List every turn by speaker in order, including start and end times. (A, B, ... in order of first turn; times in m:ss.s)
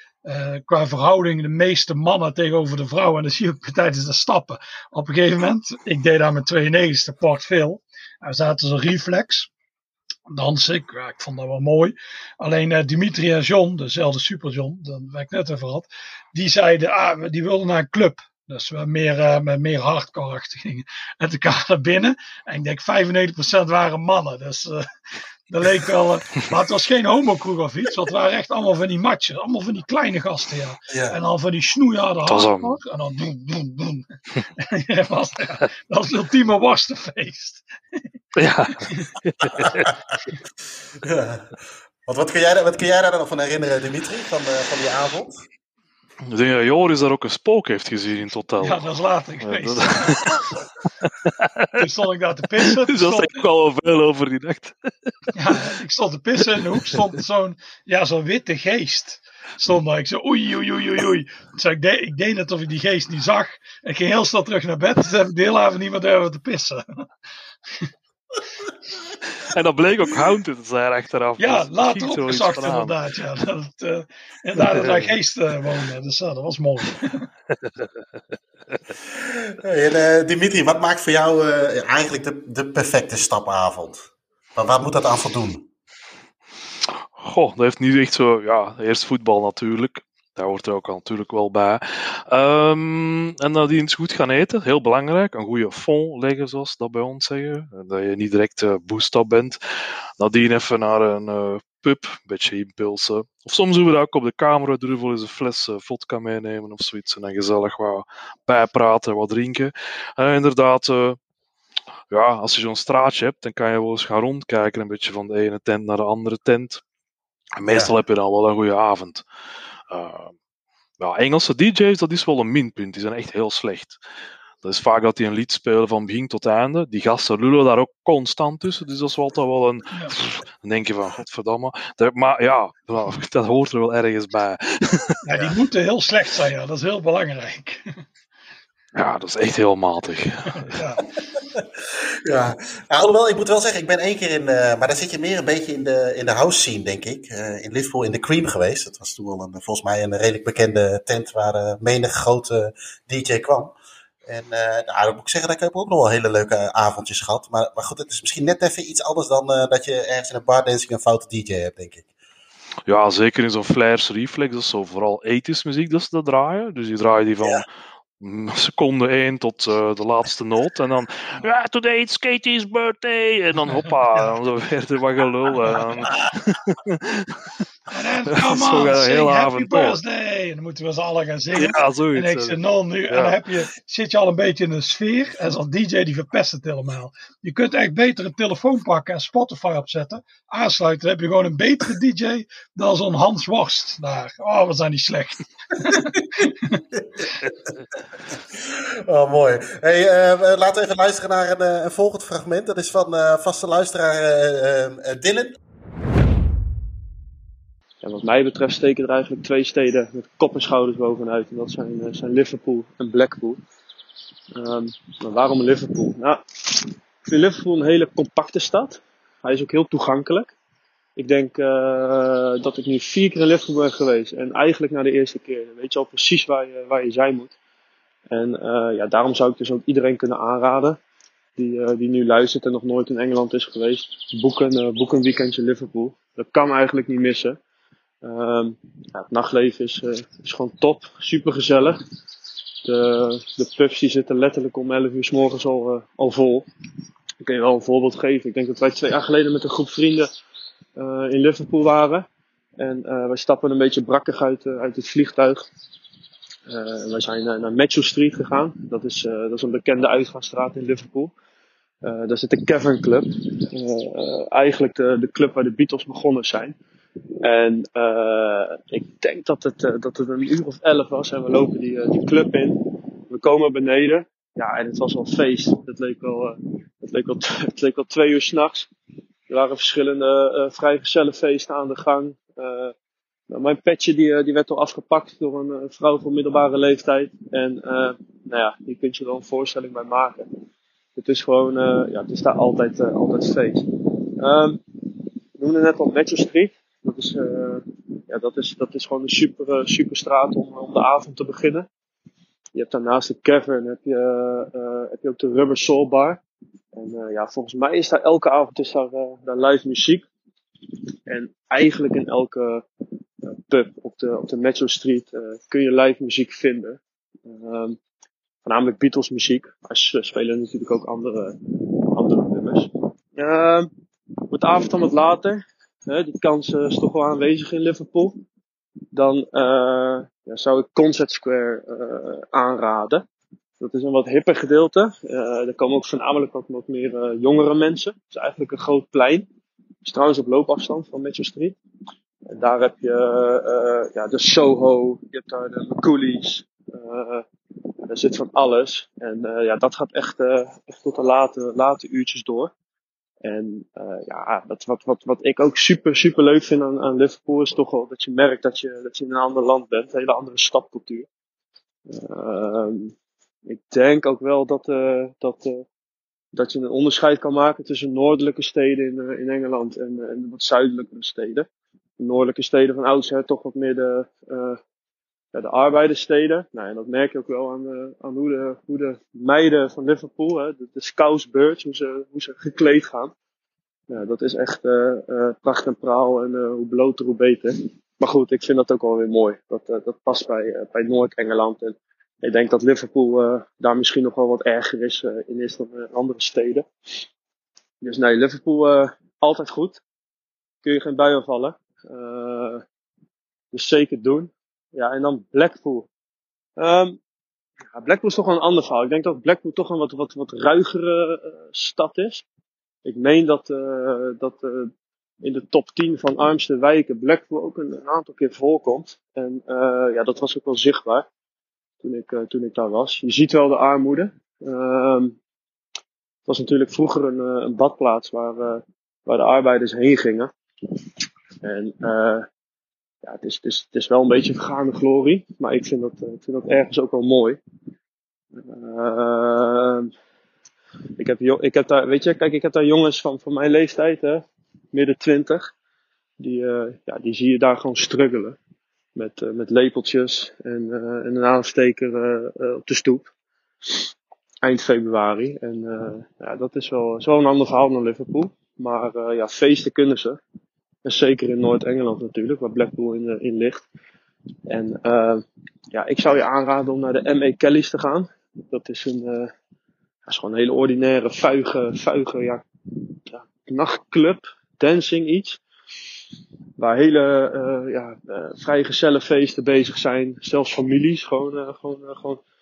0:00.2-0:09.5 A
0:10.3-0:24.9 A
0:25.5-0:34.1 A
0:30.9-0:31.2 B
0:32.3-0:32.8 C
0:34.6-0:38.0 A
0:38.4-0:39.9 C
0:41.0-0:41.5 B
0:42.1-0:45.4 B
0:46.3-0:48.8 C
0:48.6-0:50.3 A
0:49.4-0:50.5 C
0:51.0-0:51.8 C
0:51.8-0:53.4 A
0:52.6-0:55.6 C
0:55.4-1:07.1 A
1:09.4-1:13.0 C
1:11.4-1:17.3 A
1:14.6-1:15.1 C
1:17.5-1:17.9 C
1:19.5-1:24.0 B
1:24.6-1:25.7 B
1:27.2-1:39.6 C
1:40.2-1:51.2 C
1:52.1-1:56.8 C
1:57.6-1:59.2 C
1:57.7-1:57.9 B
1:59.9-2:00.3 C
2:01.0-2:04.0 C
2:04.6-2:15.5 C
2:15.2-2:17.8 A
2:19.0-2:20.8 C
2:20.6-2:21.0 A
2:22.2-2:33.7 B
2:34.3-2:42.1 B
2:42.9-2:47.7 C
2:48.2-2:57.6 C
2:57.9-3:16.8 A
2:58.3-3:00.0 C
3:01.6-3:02.6 C
3:03.1-3:03.4 C
3:18.5-3:25.6 B
3:28.0-3:33.6 D
3:34.6-3:40.5 D
3:41.2-3:47.5 D
3:48.3-3:51.0 D
3:51.6-3:57.6 D
3:58.2-4:02.0 D
4:02.8-4:06.7 D
4:07.4-4:10.3 D
4:11.0-4:12.3 D
4:12.8-4:15.7 D
4:16.7-4:21.3 D
4:22.0-4:26.8 D
4:27.4-4:38.9 D
4:39.5-4:42.9 D
4:43.5-4:50.5 D
4:51.2-4:54.8 D
4:55.6-5:01.9 D
5:02.8-5:06.4 D
5:06.9-5:10.3 D
5:11.3-5:12.8 D
5:13.5-5:18.0 D
5:18.6-5:23.9 D
5:24.5-5:28.4 D
5:29.1-5:33.3 D
5:33.8-5:39.5 D
5:40.0-5:41.8 D
5:42.5-5:47.5 D
5:48.1-5:52.7 D
5:53.4-6:01.3 D
6:02.1-6:03.2 D
6:03.7-6:05.8 D
6:06.5-6:11.7 D
6:12.2-6:14.8 D
6:15.5-6:23.3 D
6:24.1-6:36.9 D
6:38.0-6:40.0 D
6:40.8-6:42.8 D
6:43.7-6:46.1 D
6:46.8-6:47.2 D
6:48.0-6:52.4 D
6:53.0-6:54.9 D
6:55.4-7:01.3 D
7:02.0-7:05.4 D
7:06.5-7:10.5 D
7:11.6-7:12.5 D
7:13.2-7:17.6 D
7:18.6-7:20.1 D
7:21.2-7:25.7 D
7:26.4-7:28.6 D
7:29.2-7:33.3 D
7:34.6-7:40.4 D
7:41.0-7:43.8 D
7:44.7-7:49.5 D
7:50.3-7:52.6 D
7:53.3-7:55.6 D
7:56.8-8:02.4 D